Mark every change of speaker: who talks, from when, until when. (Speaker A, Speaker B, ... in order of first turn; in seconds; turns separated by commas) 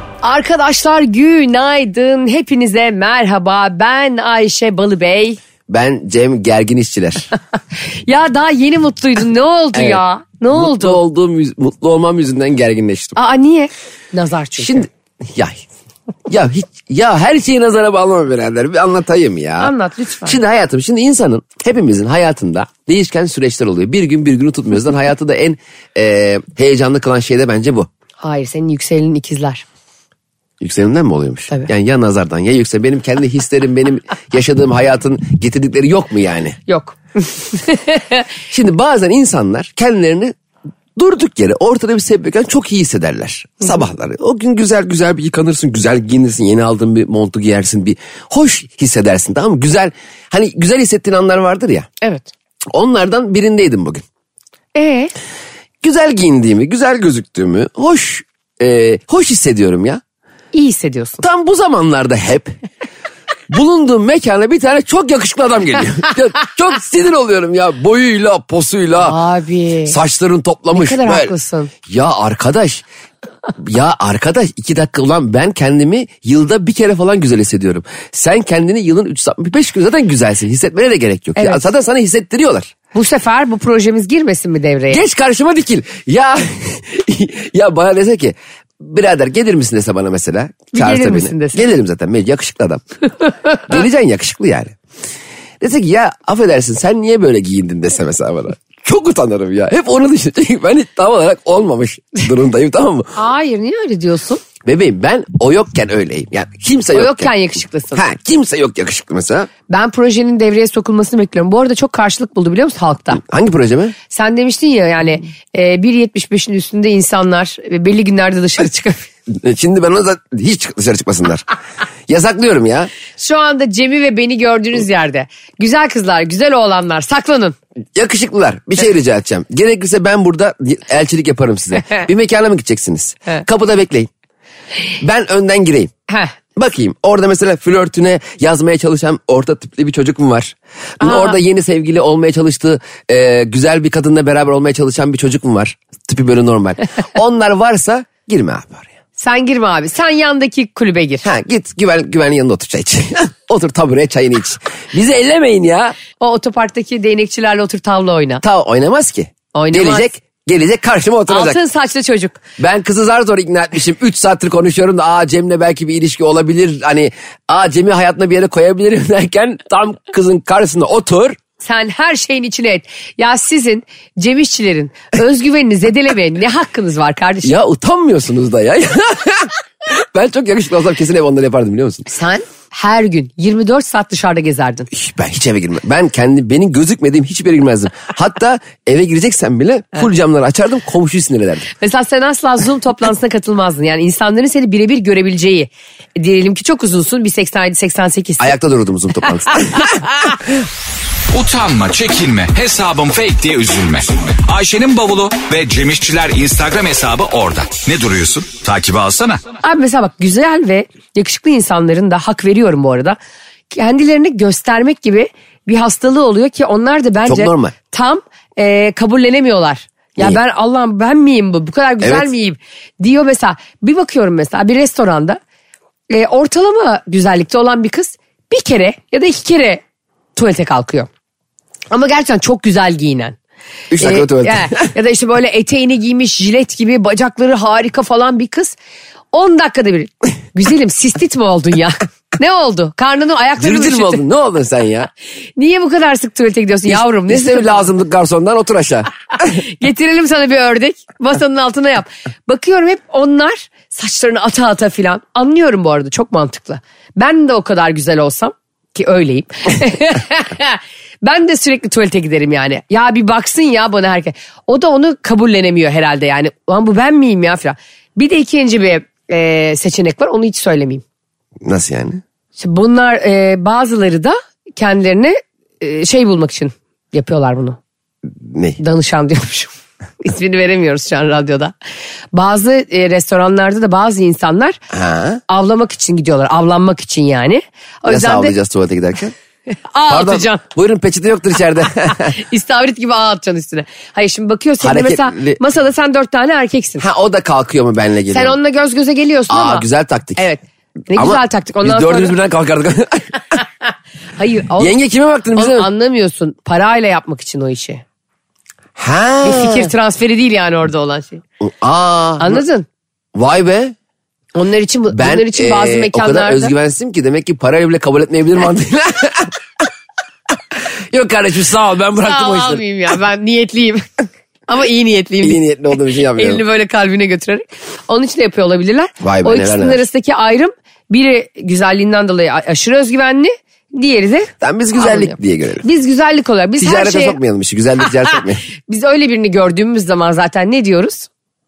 Speaker A: 0.2-5.4, Speaker B: 5.7-7.3, Speaker A: 8.1-11.0, Speaker B: 9.7-10.0, Speaker B: 10.5-13.2, Speaker A: 13.2-14.8, Speaker B: 14.6-15.6, Speaker B: 16.3-19.7, Speaker A: 19.6-20.4, Speaker B: 20.2-27.9, Speaker A: 28.2-29.6, Speaker B: 30.6-36.6, Speaker A: 36.7-38.2, Speaker B: 38.5-40.3, Speaker B: 41.0-51.9, Speaker A: 52.0-52.3, Speaker B: 52.7-54.0, Speaker A: 54.7-55.1, Speaker B: 55.8-60.0, Speaker A: 60.5-61.2, Speaker B: 61.2-62.5, Speaker B: 63.5-69.2, Speaker A: 69.0-70.0, Speaker B: 69.8-71.3, Speaker A: 70.7-71.7, Speaker B: 71.8-72.8, Speaker B: 73.6-82.7, Speaker A: 81.3-81.6, Speaker A: 82.9-85.0, Speaker B: 84.9-92.8, Speaker A: 90.7-91.6, Speaker B: 93.6-94.7, Speaker B: 95.6-103.1, Speaker A: 103.2-104.4, Speaker B: 104.6-107.3, Speaker A: 106.9-108.0, Speaker B: 107.9-109.5, Speaker A: 109.7-113.2, Speaker B: 113.1-114.0, Speaker A: 114.1-119.1, Speaker B: 119.3-121.4, Speaker B: 122.1-122.9, Speaker A: 123.2-127.5, Speaker B: 128.0-134.1, Speaker B: 135.0-135.9, Speaker A: 136.1-136.3, Speaker B: 136.6-148.9, Speaker A: 141.0-141.4, Speaker A: 149.2-151.2, Speaker B: 151.2-156.0, Speaker A: 156.2-158.4, Speaker B: 158.4-161.6, Speaker A: 159.5-160.1, Speaker A: 161.3-162.4, Speaker B: 162.6-171.4, Speaker A: 171.6-177.5, Speaker B: 177.4-182.1, Speaker A: 182.1-184.9, Speaker B: 184.9-191.7, Speaker A: 191.8-198.5, Speaker B: 198.4-200.5, Speaker C: 201.3-209.4, Speaker A: 209.6-213.2, Speaker A: 213.7-225.4, Speaker B: 217.2-217.7, Speaker B: 222.0-222.3, Speaker A: 226.1-229.8, Speaker A: 230.3-231.1, Speaker A: 231.9-233.4, Speaker B: 233.9-234.9, Speaker A: 234.0-238.7, Speaker A: 239.3-244.2, Speaker B: 243.6-245.1, Speaker A: 245.6-247.9, Speaker B: 246.9-249.6, Speaker A: 249.4-271.0, Speaker B: 271.6-272.2, Speaker A: 272.6-277.8, Speaker B: 278.3-278.8, Speaker A: 278.8-281.7, Speaker A: 282.3-284.8, Speaker B: 284.9-285.4, Speaker A: 285.5-288.5, Speaker B: 288.1-289.3, Speaker A: 289.9-290.6, Speaker B: 290.1-292.4, Speaker A: 292.1-297.0, Speaker B: 294.8-295.6, Speaker B: 297.0-298.6, Speaker A: 298.3-299.9, Speaker B: 299.5-300.4, Speaker A: 300.4-302.4, Speaker B: 301.1-303.4, Speaker A: 304.4-305.0, Speaker B: 304.8-305.9, Speaker A: 305.5-308.0, Speaker B: 309.0-309.9, Speaker A: 309.4-311.4, Speaker B: 311.6-312.6, Speaker A: 312.4-312.9, Speaker B: 313.3-313.9, Speaker A: 314.5-316.7, Speaker B: 315.1-319.6, Speaker B: 320.5-322.8, Speaker A: 322.2-324.1, Speaker A: 324.7-325.6, Speaker B: 325.4-326.6, Speaker A: 326.3-337.4, Speaker B: 329.2-330.0, Speaker B: 334.6-335.8, Speaker B: 336.8-338.7, Speaker A: 338.9-341.3